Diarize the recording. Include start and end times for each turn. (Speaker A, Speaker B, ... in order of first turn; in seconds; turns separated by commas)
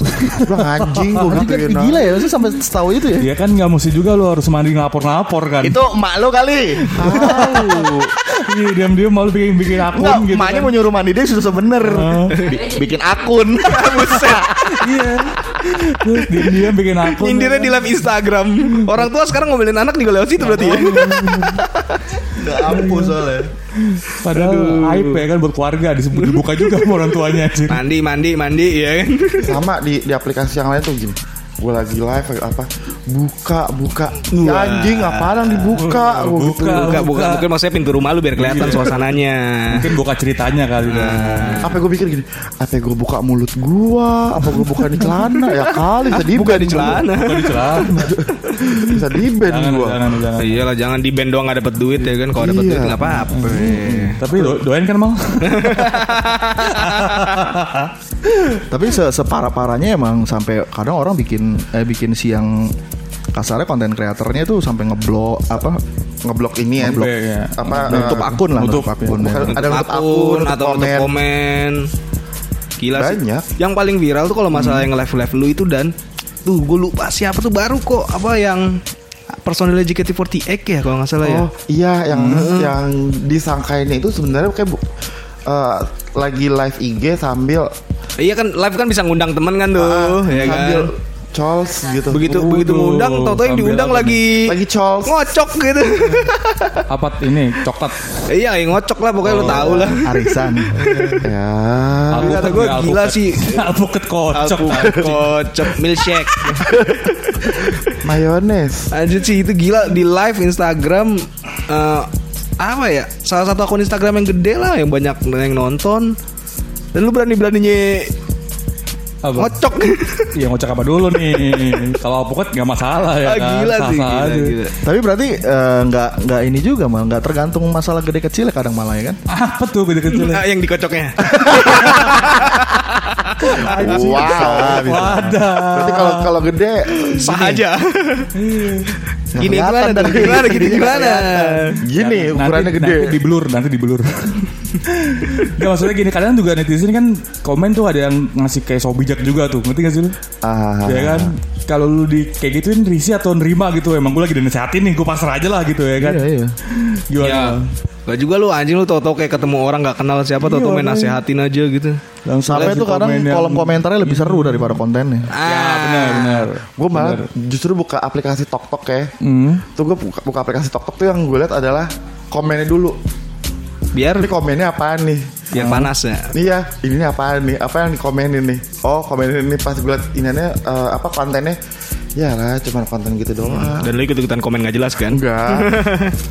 Speaker A: 0.4-2.1, Speaker B: 1.3-3.3, Speaker C: 3.2-5.8, Speaker B: 5.6-8.0, Speaker C: 6.9-10.7, Speaker A: 7.0-7.6, Speaker B: 9.8-14.8, Speaker C: 11.8-12.5, Speaker D: 13.7-14.4, Speaker C: 14.8-18.0, Speaker D: 17.1-22.2, Speaker C: 20.4-21.6, Speaker B: 22.3-23.5, Speaker C: 22.6-23.2, Speaker C: 23.8-27.8, Speaker D: 24.3-25.2, Speaker D: 26.1-29.6, Speaker A: 29.4-37.0, Speaker D: 34.3-35.9, Speaker C: 35.7-37.4, Speaker D: 36.7-39.9, Speaker C: 38.4-39.0, Speaker C: 39.7-41.6, Speaker D: 40.8-41.6, Speaker A: 41.6-47.0, Speaker D: 46.1-48.0, Speaker C: 47.1-48.1, Speaker A: 47.9-50.0, Speaker C: 48.6-50.7, Speaker D: 50.4-54.5, Speaker A: 52.4-53.0, Speaker C: 53.0-58.6, Speaker D: 55.4-57.5, Speaker B: 58.7-62.7, Speaker B: 63.3-65.8, Speaker A: 66.2-67.0, Speaker C: 66.8-69.5, Speaker B: 66.8-67.1, Speaker A: 67.6-68.3, Speaker B: 67.8-69.5, Speaker A: 69.1-71.1, Speaker D: 69.5-71.9, Speaker D: 72.8-75.9, Speaker A: 72.9-73.4, Speaker C: 74.5-74.9, Speaker D: 76.4-78.8, Speaker D: 79.4-81.5, Speaker A: 81.2-84.8, Speaker C: 82.1-82.5, Speaker D: 82.2-82.8, Speaker A: 85.5-87.7, Speaker D: 88.2-90.9, Speaker A: 89.7-92.2, Speaker D: 92.1-96.8, Speaker C: 92.2-94.3, Speaker A: 94.5-95.5, Speaker C: 96.9-98.2, Speaker D: 98.3-101.2, Speaker C: 99.2-100.0, Speaker B: 99.7-100.7, Speaker C: 100.7-101.3, Speaker A: 101.2-102.6, Speaker C: 102.1-105.3, Speaker D: 102.2-103.6, Speaker D: 104.3-107.9, Speaker A: 106.6-107.0, Speaker A: 108.0-108.9, Speaker D: 108.9-112.1, Speaker D: 112.6-116.1, Speaker D: 116.9-118.1, Speaker C: 119.2-119.5, Speaker D: 119.3-120.3, Speaker C: 120.3-124.5, Speaker D: 123.2-124.7, Speaker B: 124.8-129.2, Speaker C: 129.3-130.4, Speaker D: 130.1-133.7, Speaker C: 131.7-132.2, Speaker C: 133.4-136.4, Speaker A: 133.7-135.1, Speaker B: 134.1-135.4, Speaker A: 135.7-137.6, Speaker D: 137.1-138.3, Speaker C: 138.3-138.9, Speaker B: 139.3-141.7, Speaker D: 139.3-141.8, Speaker A: 141.8-143.1, Speaker C: 141.9-150.1, Speaker A: 150.4-151.3, Speaker C: 150.8-157.6, Speaker B: 156.0-156.6, Speaker D: 157.2-162.0, Speaker C: 160.4-161.2, Speaker C: 162.2-164.8, Speaker B: 162.4-165.3, Speaker D: 165.3-166.5, Speaker C: 165.4-167.3, Speaker A: 166.8-169.1, Speaker C: 169.2-169.6, Speaker A: 169.7-173.0, Speaker D: 173.9-174.3, Speaker A: 174.2-175.4, Speaker D: 175.5-176.3, Speaker C: 175.6-175.9, Speaker A: 176.3-181.6, Speaker A: 182.2-183.9, Speaker D: 183.4-186.1, Speaker A: 185.1-185.7